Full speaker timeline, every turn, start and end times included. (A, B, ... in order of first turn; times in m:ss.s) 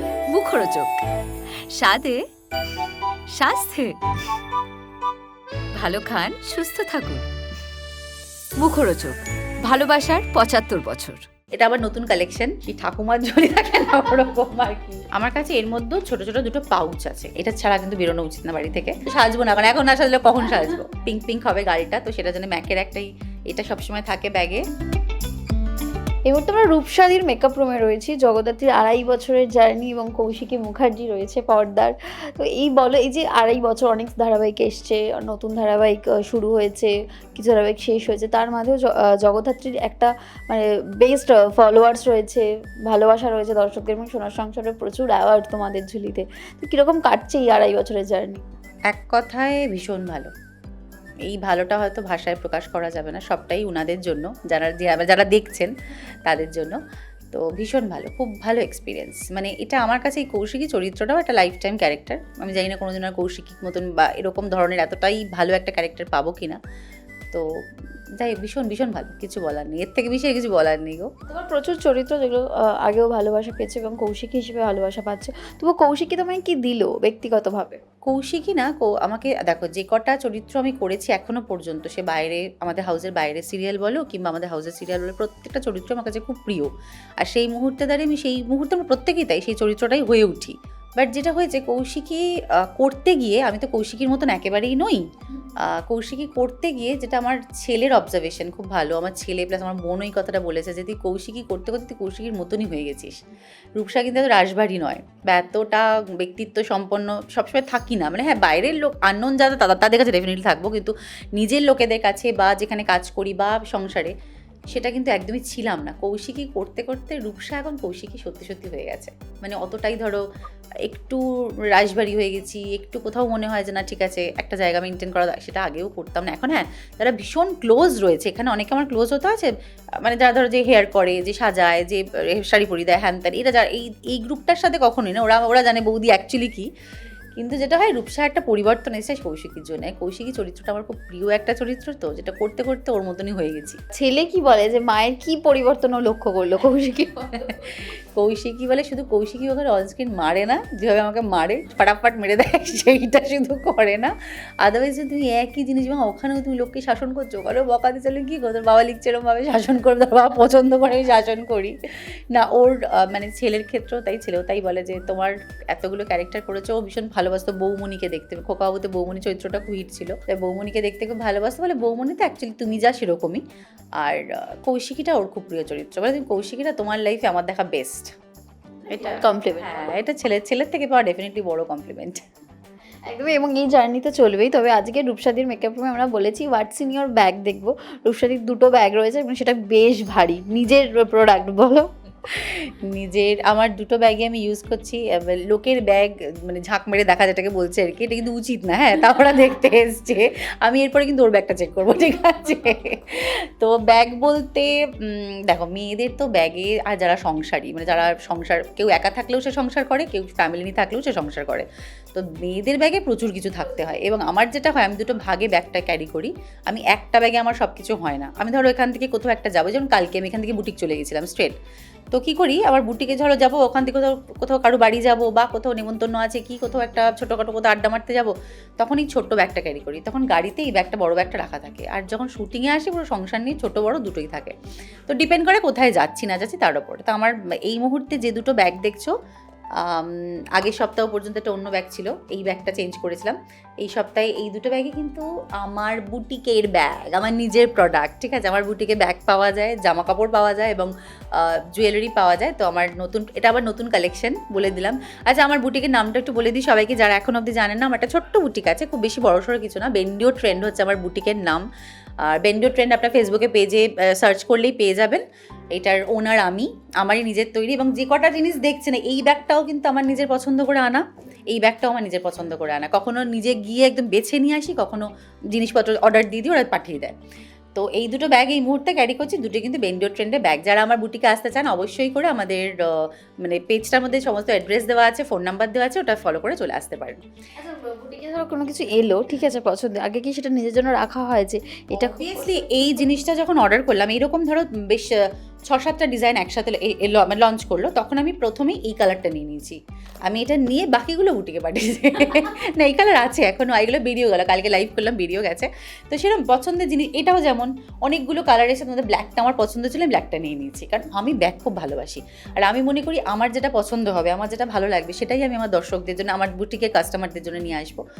0:00.3-0:01.0 A
0:01.7-0:02.2 A
0:03.3-0:04.0 A
0:05.7-0:07.2 A
0:08.6-0:11.2 A
0:11.5-0:24.6 B
0:26.2-0:48.4 C
0:48.9-0:50.3 B
0:51.3-0:55.7 B
0:56.2-0:56.8 B
0:57.3-1:06.6 B
1:08.2-1:11.1 B
1:11.3-1:17.8 C
1:18.0-1:35.0 B
1:35.6-1:43.2 B
1:43.8-1:54.1 B
1:54.7-2:00.2 B
2:00.8-2:16.7 B
2:17.4-2:23.8 B
2:23.9-2:27.4 C
2:27.4-2:41.8 B
2:42.3-2:53.4 B
2:54.0-2:58.1 B
2:58.9-3:02.2 B
2:59.0-2:59.8 C
3:03.1-3:11.9 C
3:12.2-3:41.5 B
3:42.1-3:54.6 B
3:55.1-3:59.1 B
3:59.8-4:21.6 B
4:22.2-4:37.1 B
4:37.7-4:47.2 B
4:47.6-4:52.8 C
4:51.9-5:18.0 B